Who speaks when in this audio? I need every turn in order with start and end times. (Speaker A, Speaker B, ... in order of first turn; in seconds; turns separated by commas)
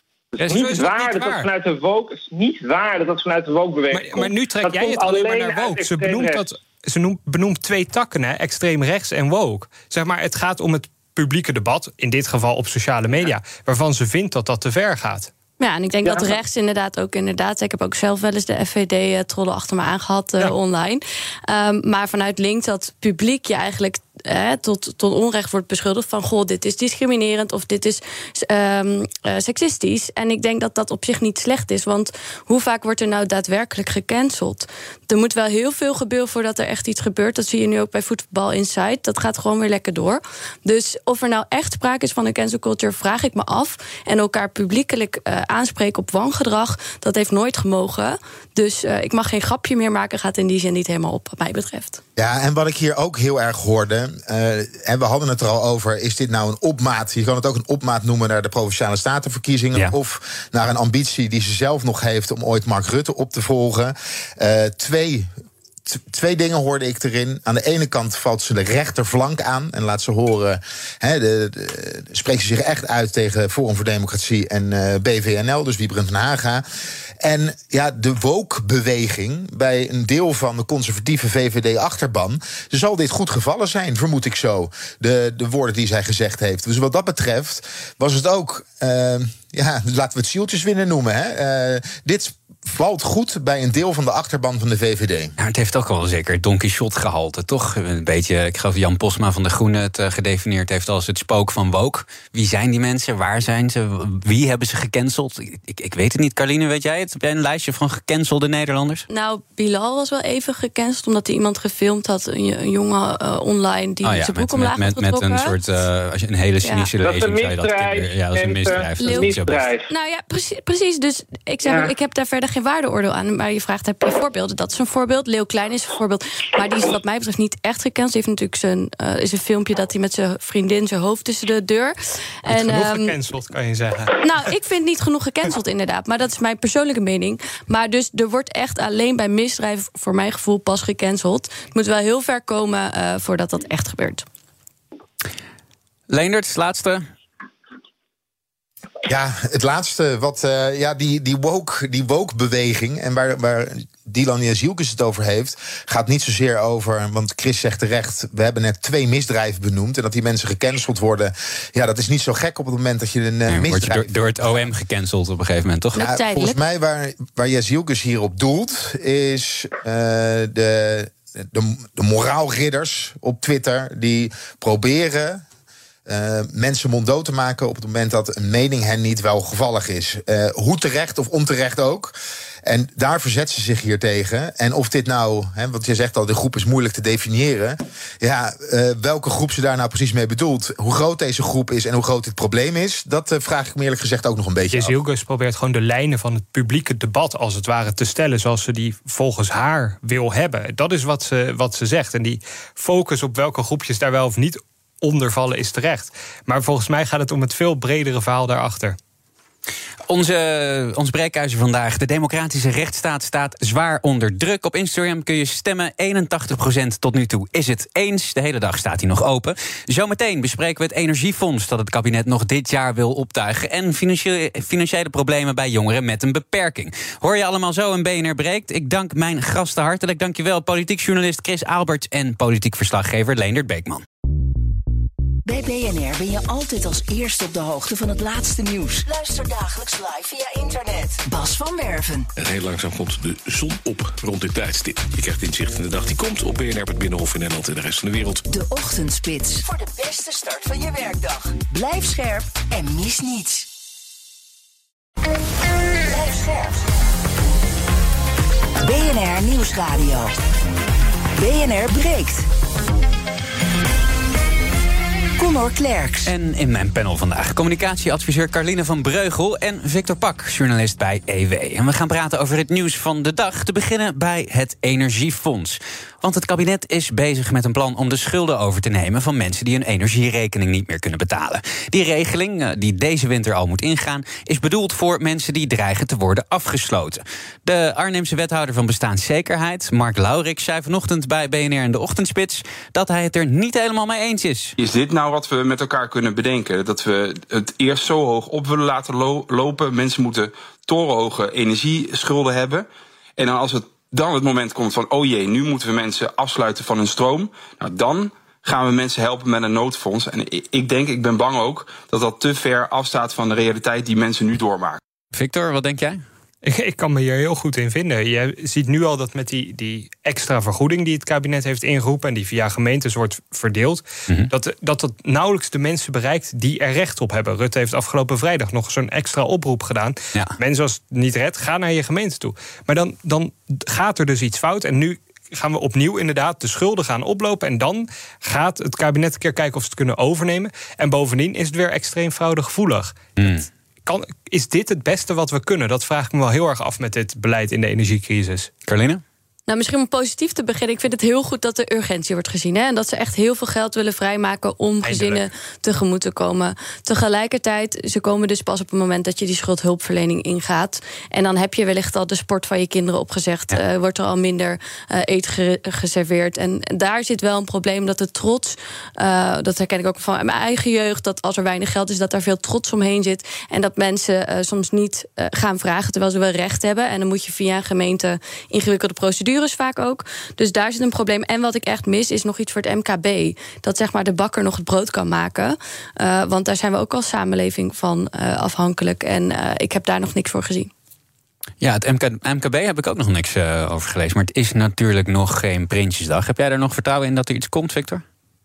Speaker A: 0.3-6.5, Speaker B: 0.4-1.5, Speaker B: 3.9-15.3, Speaker C: 15.6-52.0, Speaker A: 16.1-16.4, Speaker D: 52.1-65.3, Speaker D: 65.9-76.6, Speaker D: 77.2-95.4, Speaker E: 95.4-109.0, Speaker C: 109.1-115.5, Speaker E: 114.0-119.7, Speaker A: 117.0-119.9, Speaker C: 119.0-119.3, Speaker C: 119.9-133.1, Speaker A: 121.7-121.9, Speaker B: 132.5-134.5, Speaker C: 134.2-144.2, Speaker E: 146.1-147.1, Speaker D: 149.1-164.7, Speaker E: 163.5-166.1, Speaker C: 165.9-166.6, Speaker D: 166.0-175.4, Speaker D: 176.1-182.1, Speaker D: 182.6-195.0, Speaker B: 194.7-209.0, Speaker E: 210.1-234.0, Speaker F: 235.5-242.3, Speaker G: 242.4-248.4, Speaker F: 248.5-253.7, Speaker F: 256.0-256.8, Speaker F: 258.8-260.3, Speaker F: 261.4-262.5, Speaker F: 265.4-266.3, Speaker E: 266.3-294.8, Speaker H: 294.8-315.0, Speaker E: 315.3-316.2, Speaker B: 316.6-343.3, Speaker E: 343.4-343.7, Speaker B: 344.1-348.7, Speaker E: 348.9-349.2, Speaker C: 349.7-390.9, Speaker B: 355.0-355.4, Speaker E: 391.8-398.2